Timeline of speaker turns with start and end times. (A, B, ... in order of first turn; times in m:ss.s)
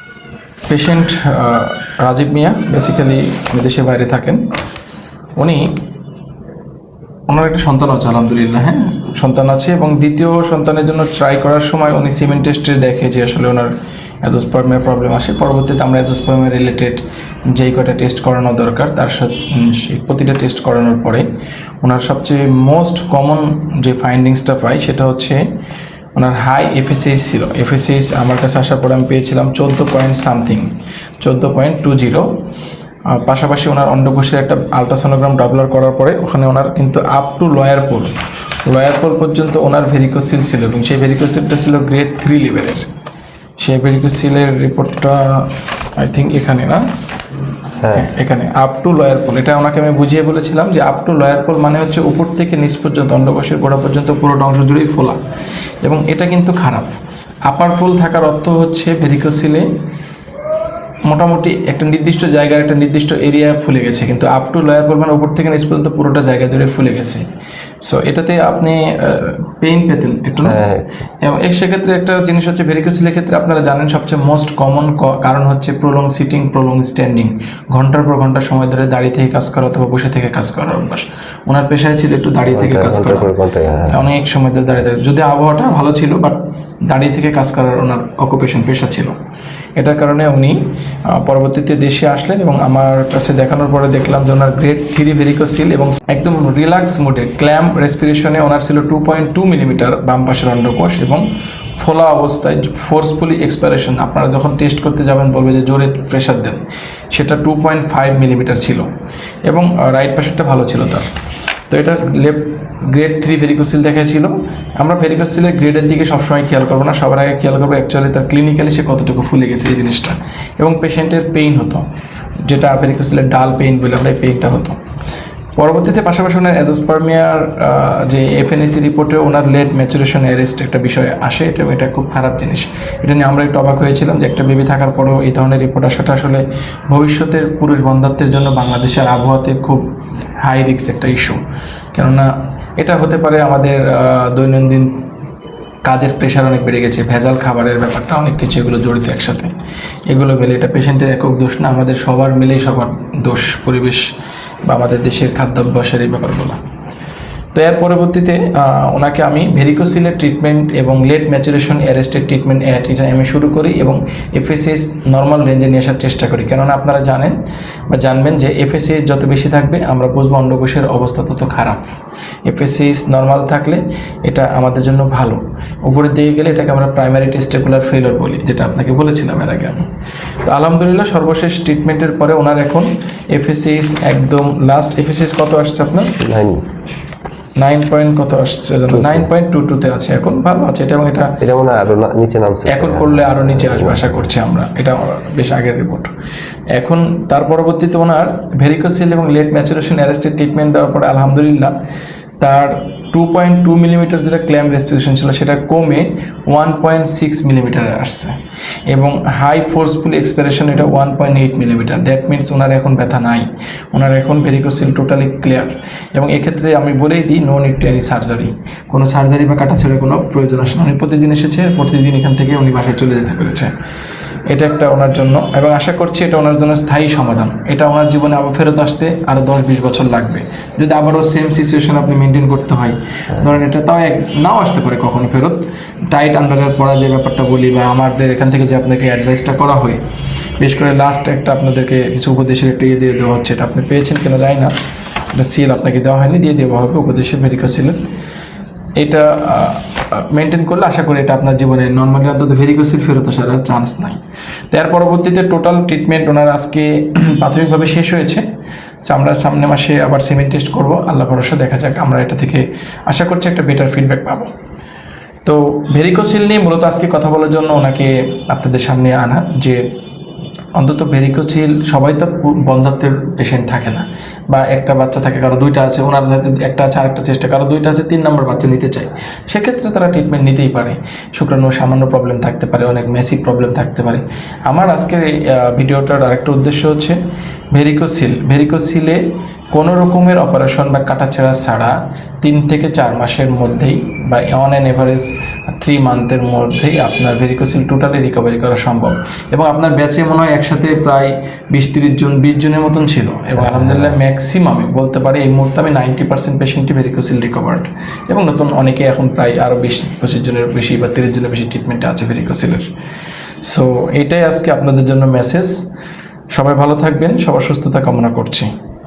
0:00.7-0:04.4 A
0:05.4-0:05.7 A
0:07.3-0:17.0 A
0:17.5-0:21.3 A
0:21.8-0:25.4 A
0:26.2-0:30.7 A
0:31.2-0:32.2 A
0:33.1-0:38.1 A
0:38.7-0:42.9 A
0:43.6-0:46.8 A
0:47.8-0:48.1 B
0:47.9-0:55.2 A
0:55.8-0:57.0 A
0:57.5-0:59.7 A
1:01.1-1:07.2 A
1:07.8-1:10.6 A
1:10.4-1:10.8 B
1:11.2-1:23.3 A
1:22.5-1:24.0 B
1:23.9-1:29.1 A
1:29.8-1:41.2 A
1:41.8-1:46.6 A
1:47.1-1:48.9 A
1:49.5-1:51.1 A
1:51.7-2:01.8 A
2:02.4-2:04.8 A
2:05.6-2:19.8 A
2:20.4-2:21.4 A
2:21.9-2:25.0 A
2:25.8-2:29.5 A
2:30.1-2:34.1 A
2:34.6-2:36.6 A
2:37.5-2:47.4 A
2:47.9-2:59.9 A
3:00.4-3:06.2 A
3:06.2-3:06.6 B
3:07.6-3:11.4 A
3:08.9-3:09.3 B
3:11.4-3:14.2 B
3:12.7-3:16.1 A
3:16.7-3:21.7 A
3:22.4-3:28.3 A
3:28.9-3:43.7 A
3:44.5-4:00.0 A
4:00.6-4:04.7 A
4:05.3-4:08.0 A
4:09.0-4:14.2 A
4:14.7-4:18.4 A
4:19.0-4:24.5 A
4:25.4-4:29.8 A
4:30.8-4:47.2 A
4:47.7-4:49.2 A
4:49.7-5:12.9 A
5:03.6-5:04.1 B
5:13.6-5:15.8 A
5:16.5-5:18.7 A